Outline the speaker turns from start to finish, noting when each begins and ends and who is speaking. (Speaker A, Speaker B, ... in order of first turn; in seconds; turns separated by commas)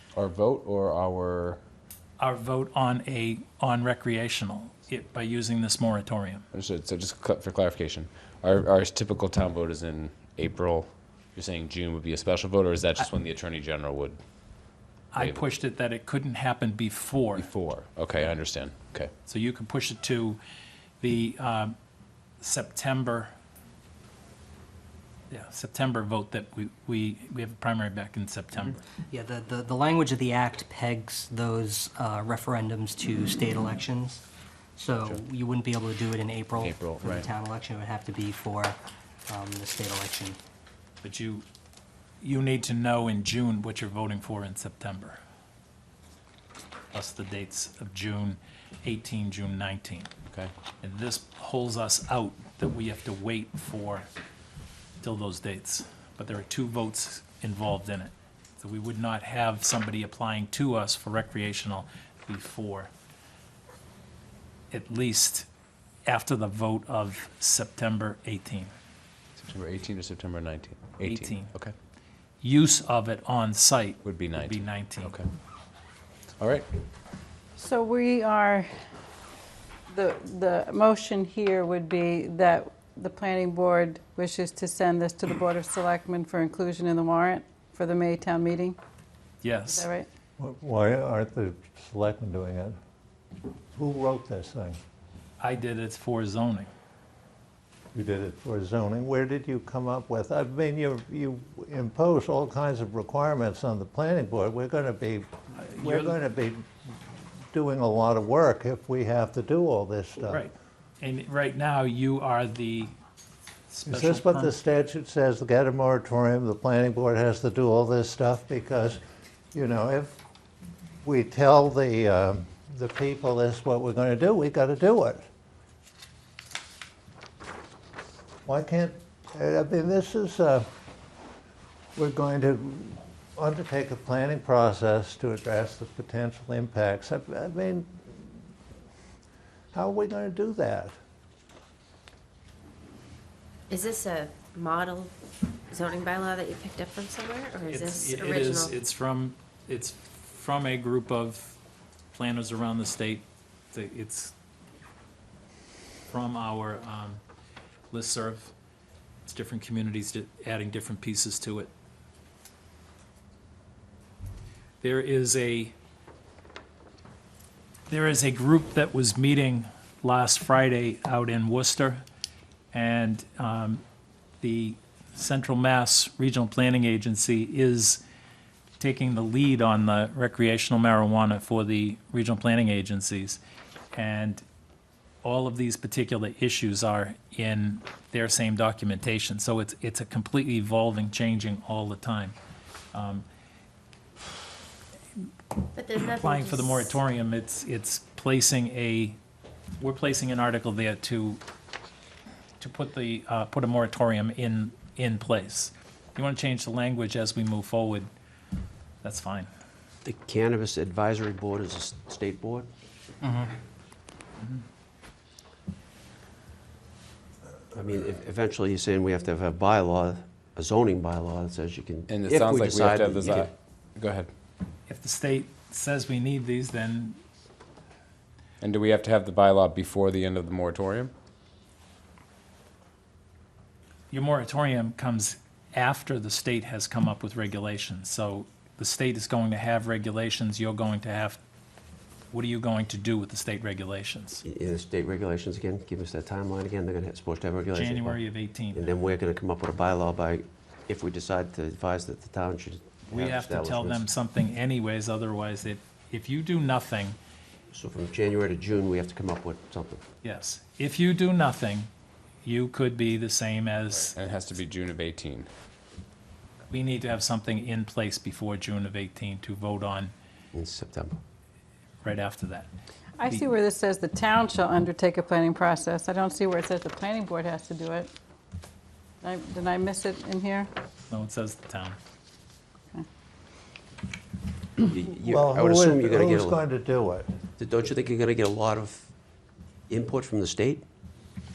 Speaker A: 0.1-1.6, Speaker B: 2.2-6.5, Speaker A: 6.5-14.2, Speaker B: 15.1-17.5, Speaker A: 15.2-15.4, Speaker A: 17.4-19.1, Speaker B: 19.3-20.4, Speaker B: 21.0-21.8, Speaker B: 22.4-23.3, Speaker B: 25.3-28.8, Speaker C: 29.1-34.2, Speaker C: 34.8-40.4, Speaker A: 36.6-37.3, Speaker B: 41.0-41.5, Speaker B: 42.2-45.2, Speaker B: 46.9-50.1, Speaker B: 50.8-54.1, Speaker B: 55.0-62.9, Speaker B: 64.7-65.5, Speaker B: 66.1-68.7, Speaker A: 69.4-71.8, Speaker B: 71.0-71.5, Speaker B: 72.4-75.1, Speaker A: 74.0-75.2, Speaker A: 76.4-76.7, Speaker D: 77.6-78.7, Speaker D: 79.9-88.8, Speaker B: 89.4-89.9, Speaker D: 89.7-90.1, Speaker E: 90.4-92.8, Speaker E: 93.7-94.8, Speaker B: 95.4-96.7, Speaker E: 98.0-106.7, Speaker B: 105.7-106.2, Speaker E: 107.5-110.5, Speaker B: 110.3-113.0, Speaker B: 113.7-114.5, Speaker E: 113.9-119.0, Speaker E: 119.5-120.2, Speaker E: 121.0-125.3, Speaker E: 128.5-130.7, Speaker E: 132.0-138.1, Speaker E: 139.7-141.0, Speaker F: 143.7-145.1, Speaker F: 145.7-148.7, Speaker B: 147.7-151.6, Speaker B: 152.1-154.3, Speaker B: 156.1-157.2, Speaker B: 157.9-158.5, Speaker B: 159.2-161.7, Speaker B: 164.8-165.8, Speaker B: 167.9-172.0, Speaker B: 172.7-173.8, Speaker B: 174.4-178.0, Speaker B: 178.8-183.4, Speaker B: 183.9-184.4, Speaker B: 185.2-192.4, Speaker B: 192.9-193.2, Speaker F: 195.8-196.8, Speaker B: 196.0-199.2, Speaker B: 199.8-201.4, Speaker B: 202.6-208.1, Speaker B: 209.0-209.5, Speaker G: 210.0-212.7, Speaker C: 213.2-213.5, Speaker G: 217.7-223.5, Speaker A: 222.1-224.3, Speaker B: 224.9-227.2, Speaker A: 228.6-231.1, Speaker B: 234.1-241.4, Speaker B: 242.3-244.4, Speaker G: 244.4-248.2, Speaker B: 247.8-248.9, Speaker G: 248.7-254.1, Speaker B: 253.1-257.2, Speaker G: 257.7-260.0, Speaker B: 260.2-261.9, Speaker B: 262.4-264.1, Speaker A: 263.9-265.5, Speaker B: 266.7-270.1, Speaker G: 270.5-271.2, Speaker B: 272.0-272.7, Speaker D: 273.2-278.1, Speaker D: 279.2-280.7, Speaker B: 281.1-282.0, Speaker G: 284.8-286.6, Speaker E: 285.2-287.3, Speaker G: 287.6-289.1, Speaker G: 289.9-290.9